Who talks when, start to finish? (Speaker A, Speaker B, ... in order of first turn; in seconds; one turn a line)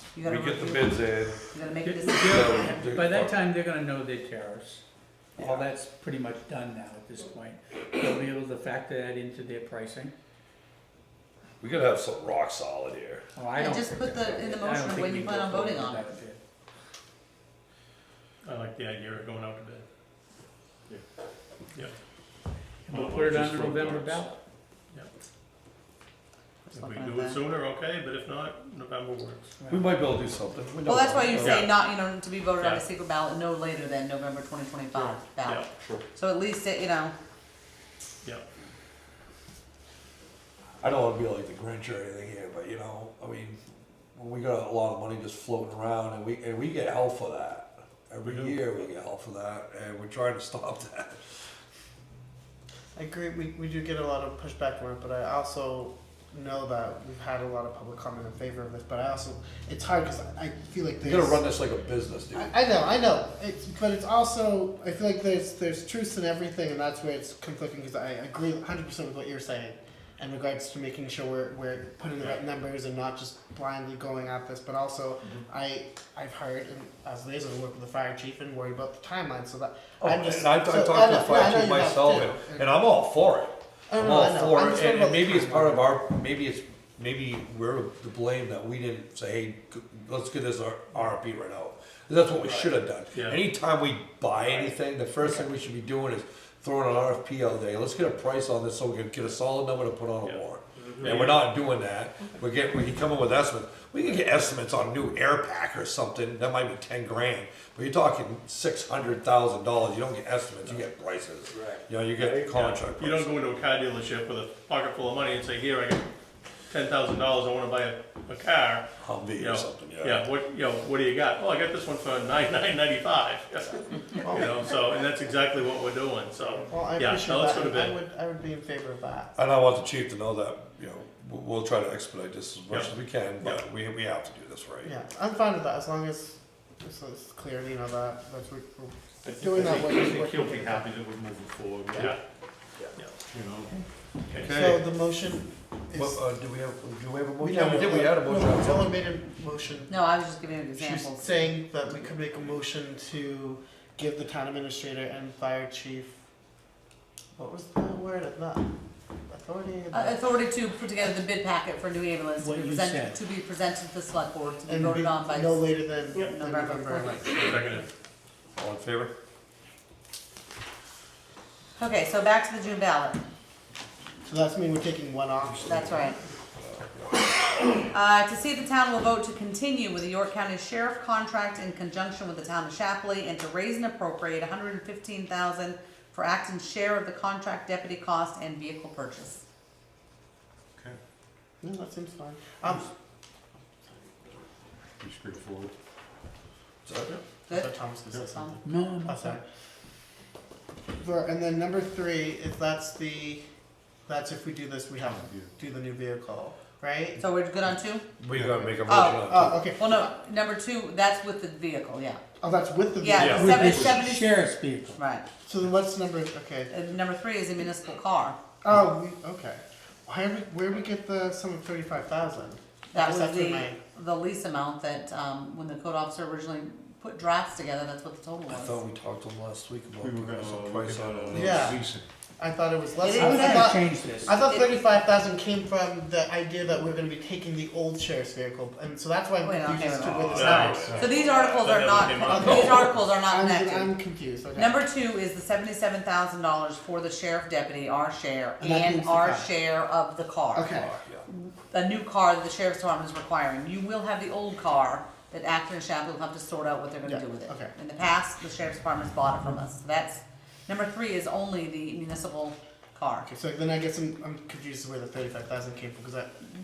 Speaker A: 0.1-2.7
Speaker B: 0.2-1.5
Speaker C: 1.8-4.8
Speaker B: 2.2-3.3
Speaker C: 5.4-10.1
Speaker B: 5.4-5.7
Speaker B: 11.6-13.2
Speaker C: 13.4-16.4
Speaker A: 13.6-16.1
Speaker D: 18.4-19.8
Speaker C: 22.9-24.4
Speaker E: 22.9-24.3
Speaker A: 26.7-27.4
Speaker D: 26.7-29.5
Speaker C: 29.6-29.9
Speaker B: 29.7-31.7
Speaker A: 30.9-37.1
Speaker D: 31.4-31.8
Speaker D: 35.0-35.7
Speaker B: 40.8-43.6
Speaker B: 44.1-51.4
Speaker E: 48.2-48.6
Speaker F: 53.0-61.5
Speaker B: 61.0-62.5
Speaker F: 62.3-82.7
Speaker B: 80.0-113.3
Speaker F: 83.9-85.9
Speaker D: 92.5-93.4
Speaker D: 101.0-101.4
Speaker D: 112.4-116.1
Speaker D: 116.7-128.0
Speaker B: 119.0-120.2
Speaker F: 126.7-129.3
Speaker B: 129.4-134.9
Speaker D: 132.7-133.6
Speaker F: 134.8-141.0
Speaker C: 139.2-140.7
Speaker E: 139.4-142.2
Speaker E: 143.3-143.8
Speaker D: 144.3-144.7
Speaker F: 144.4-146.2
Speaker E: 144.4-144.8
Speaker B: 145.9-148.9
Speaker F: 147.4-150.1
Speaker A: 149.9-151.3
Speaker F: 150.8-156.1
Speaker F: 157.3-158.7
Speaker F: 159.3-160.2
Speaker A: 159.9-167.5
Speaker C: 162.4-163.2
Speaker F: 164.7-167.8
Speaker D: 167.4-167.9
Speaker B: 168.6-169.1
Speaker A: 171.8-173.2
Speaker F: 174.3-176.0
Speaker A: 175.6-176.2
Speaker A: 177.9-189.4
Speaker F: 191.6-192.9
Speaker E: 195.0-195.7
Speaker B: 196.8-197.2
Speaker A: 197.5-197.8
Speaker F: 197.5-199.4
Speaker A: 198.3-198.6
Speaker C: 198.6-199.4
Speaker F: 200.9-203.4
Speaker F: 204.1-207.2
Speaker E: 205.0-205.5
Speaker A: 207.2-208.1
Speaker B: 208.2-209.6
Speaker E: 208.3-208.7
Speaker F: 208.6-209.9
Speaker A: 208.9-209.2
Speaker A: 209.8-212.2
Speaker F: 212.4-214.0
Speaker A: 213.0-214.4
Speaker B: 213.2-213.4
Speaker C: 213.2-215.0
Speaker A: 214.9-215.2
Speaker F: 215.5-216.7
Speaker A: 216.7-218.4
Speaker F: 218.6-223.8
Speaker A: 222.9-228.8
Speaker B: 228.5-231.8
Speaker E: 230.0-232.1
Speaker F: 231.3-231.9
Speaker F: 232.4-241.1
Speaker A: 233.0-234.8
Speaker C: 233.1-234.4
Speaker A: 239.4-243.9
Speaker B: 240.1-242.6
Speaker D: 240.3-242.9
Speaker E: 240.8-241.1
Speaker F: 242.2-244.8
Speaker A: 244.5-263.3
Speaker F: 248.6-249.5
Speaker F: 250.5-250.9
Speaker B: 250.7-251.3
Speaker F: 257.0-257.7
Speaker F: 263.3-266.5